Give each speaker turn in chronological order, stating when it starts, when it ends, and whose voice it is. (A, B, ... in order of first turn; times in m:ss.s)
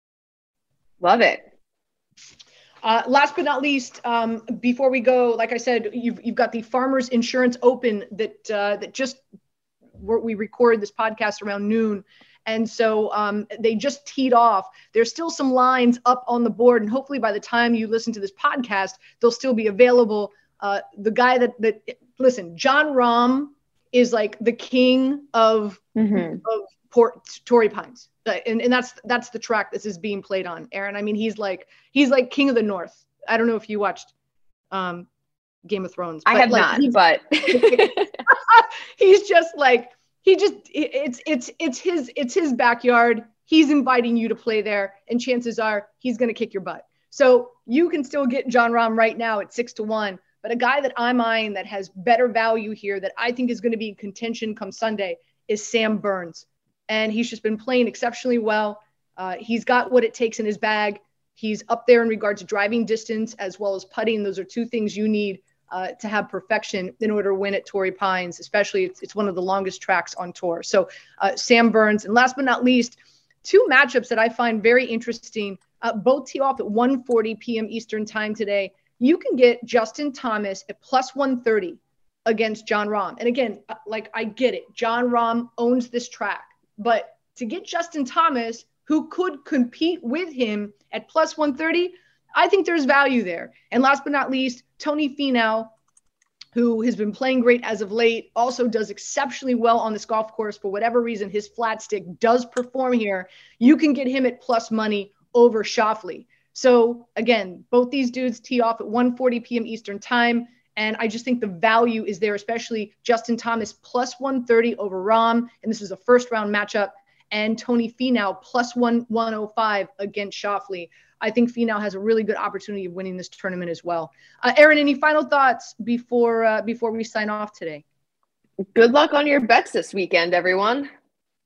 0:01.0-0:01.4 A
0:02.8-0:09.2 B
0:10.0-0:34.1 B
0:26.0-0:26.4 A
0:34.7-0:35.1 B
0:35.7-1:35.7 B
0:36.3-0:38.1 A
1:36.6-2:07.8 B
2:08.7-2:10.9 A